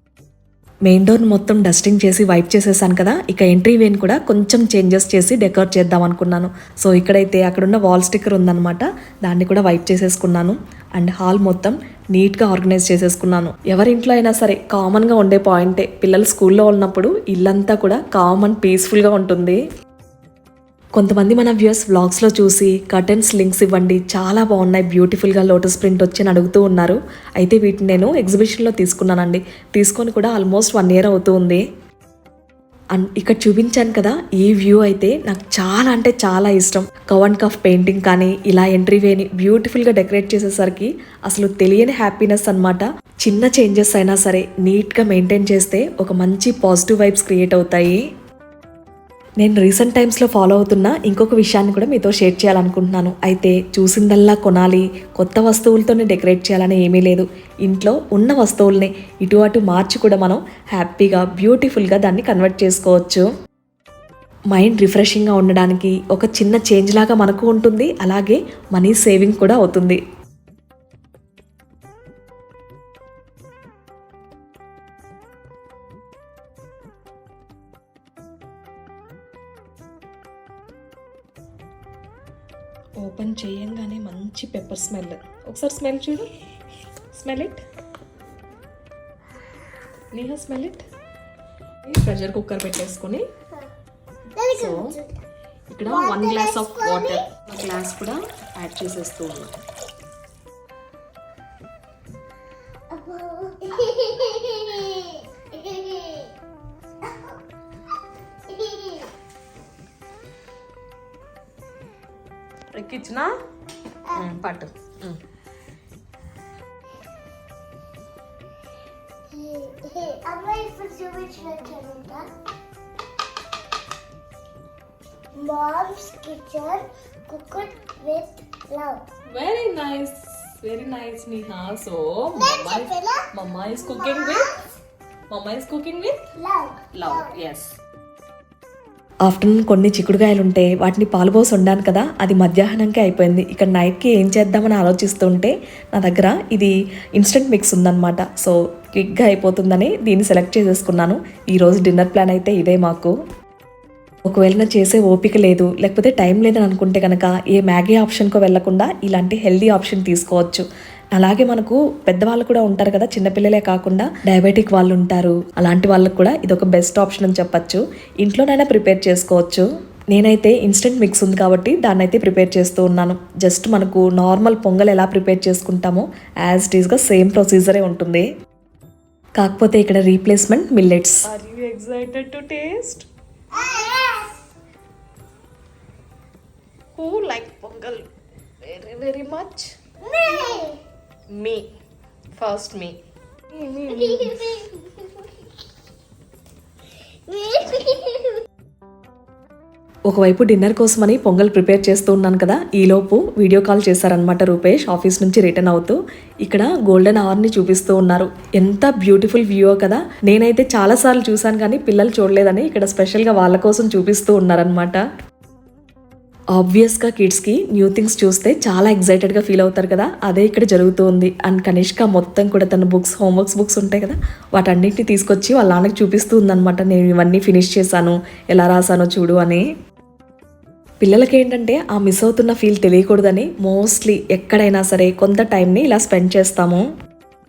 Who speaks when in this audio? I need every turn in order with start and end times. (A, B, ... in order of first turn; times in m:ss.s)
0:00.8-0:19.6 A
0:21.0-0:31.6 A
0:32.9-0:48.0 A
0:49.4-1:03.2 A
1:04.5-1:10.0 A
1:23.0-1:26.2 A
1:27.1-1:27.6 A
1:30.1-1:30.8 A
1:31.8-1:33.2 A
1:34.3-1:35.2 B
1:34.5-1:35.0 A
1:35.7-1:39.5 A
1:35.8-1:37.2 B
1:42.9-1:46.3 B
1:47.0-1:47.4 B
1:48.5-1:49.1 B
1:52.7-1:53.3 A
1:54.1-1:54.3 B
1:54.2-1:55.2 A
1:59.3-2:02.2 B
2:05.4-2:09.0 B
2:09.3-2:14.4 A
2:12.3-2:14.6 B
2:15.3-2:16.2 A
2:16.4-2:17.3 B
2:16.9-2:17.7 A
2:19.2-2:33.1 A
2:34.2-2:58.2 A
2:59.4-3:03.0 A
3:03.5-3:04.4 B
3:07.0-3:08.0 A
3:08.7-3:09.7 A
3:10.0-3:10.8 B
3:11.3-3:11.6 A
3:12.4-3:13.0 A
3:13.6-3:14.2 A
3:13.8-3:15.2 B
3:17.3-3:18.4 B
3:20.1-3:35.0 A
3:36.5-3:49.6 A
3:51.0-3:56.8 A